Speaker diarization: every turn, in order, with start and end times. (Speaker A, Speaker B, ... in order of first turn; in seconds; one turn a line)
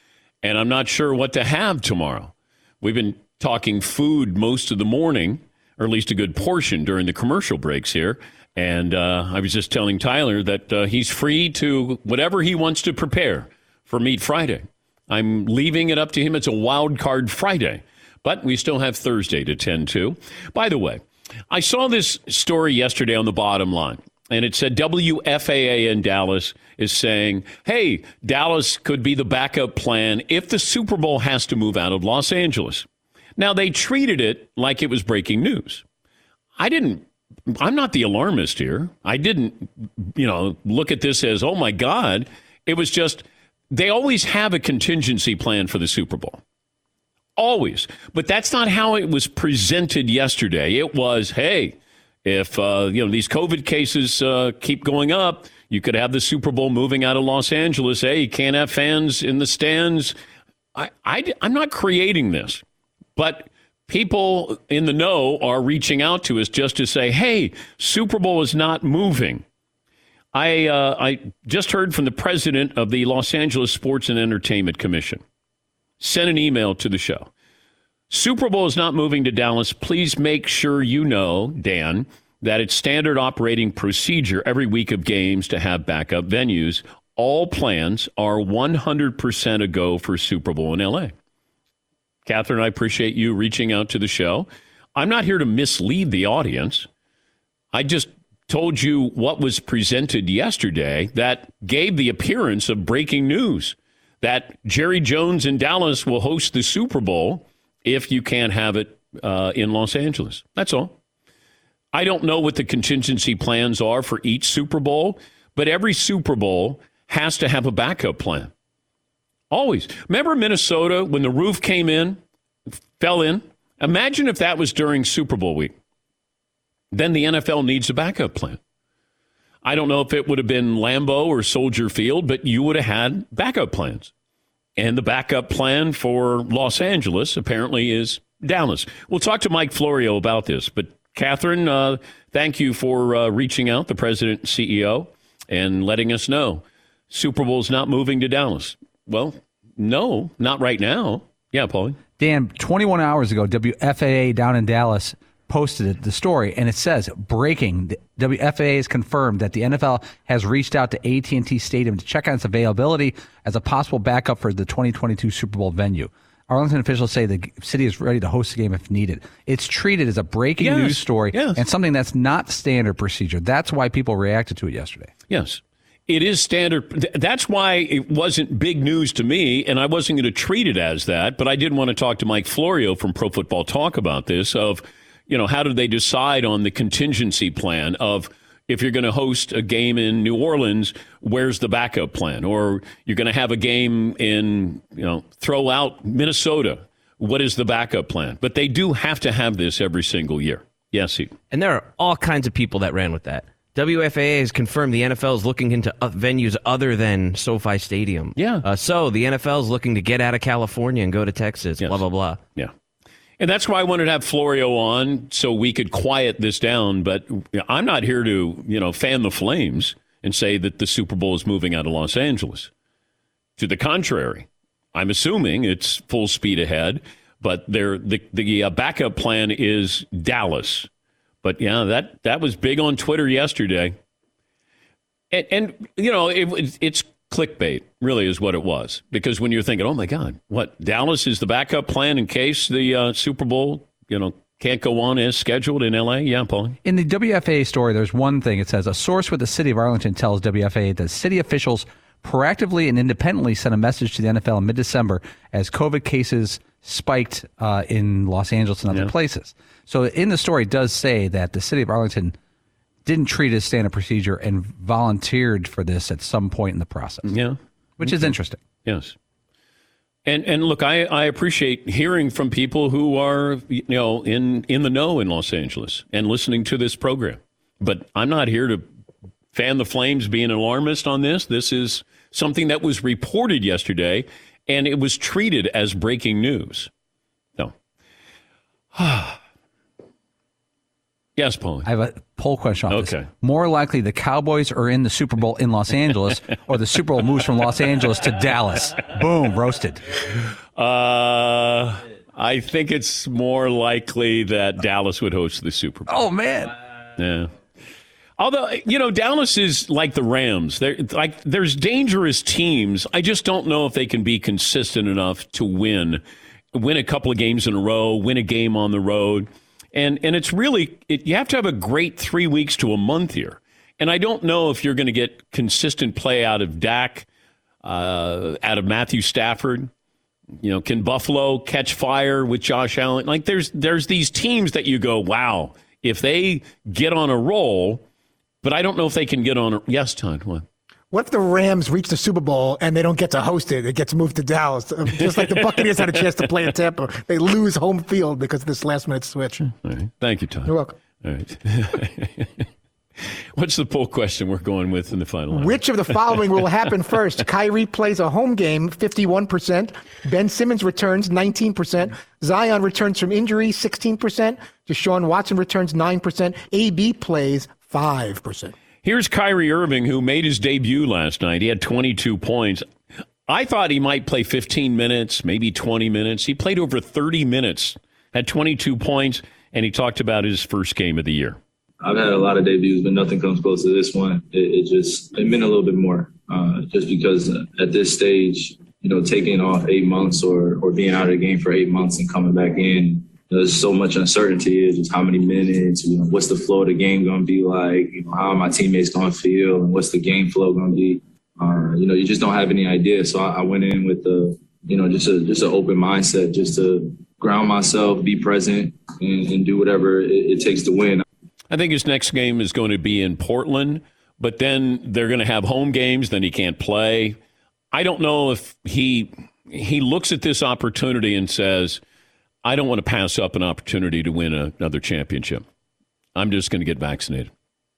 Speaker A: 0.4-32.9
Speaker A: 33.4-35.8
Speaker A: 36.6-46.4
Speaker A: 47.4-60.1
Speaker A: 60.8-62.6
Speaker A: 63.2-69.4
Speaker A: 70.3-75.2
Speaker A: 76.0-77.3
Speaker A: 78.1-91.1
Speaker A: 92.2-96.9
Speaker A: 97.7-111.0
Speaker A: 111.9-118.5
Speaker A: 119.5-122.2
Speaker A: 123.0-125.7
Speaker A: 126.9-128.6
Speaker A: 129.6-134.1
Speaker A: 134.8-152.0
Speaker B: 152.2-175.1
Speaker A: 170.6-171.6
Speaker A: 175.3-201.3
Speaker C: 201.5-212.4
Speaker A: 208.4-208.7
Speaker A: 213.4-222.7
Speaker A: 223.6-230.9
Speaker A: 231.4-234.0
Speaker A: 235.3-246.8
Speaker B: 246.8-262.4
Speaker B: 263.1-267.4
Speaker A: 267.2-268.3
Speaker B: 268.0-268.6
Speaker A: 268.9-269.2
Speaker A: 270.3-278.9
Speaker A: 279.5-286.9
Speaker A: 288.9-289.4
Speaker A: 291.4-291.9
Speaker B: 291.9-300.0
Speaker A: 292.9-293.3
Speaker A: 300.3-306.2
Speaker B: 306.1-306.7
Speaker A: 307.2-307.5
Speaker A: 308.4-316.2
Speaker A: 316.7-327.3
Speaker A: 327.8-329.9
Speaker A: 330.6-338.0
Speaker A: 338.6-340.7
Speaker D: 341.1-349.7
Speaker A: 345.1-346.2
Speaker A: 349.8-352.6
Speaker D: 350.7-351.0
Speaker A: 353.6-356.7
Speaker D: 355.5-368.7
Speaker A: 369.0-372.9
Speaker A: 373.5-381.6
Speaker E: 382.0-411.2
Speaker A: 411.7-417.4
Speaker A: 417.9-422.0
Speaker A: 422.6-425.6
Speaker A: 426.4-427.5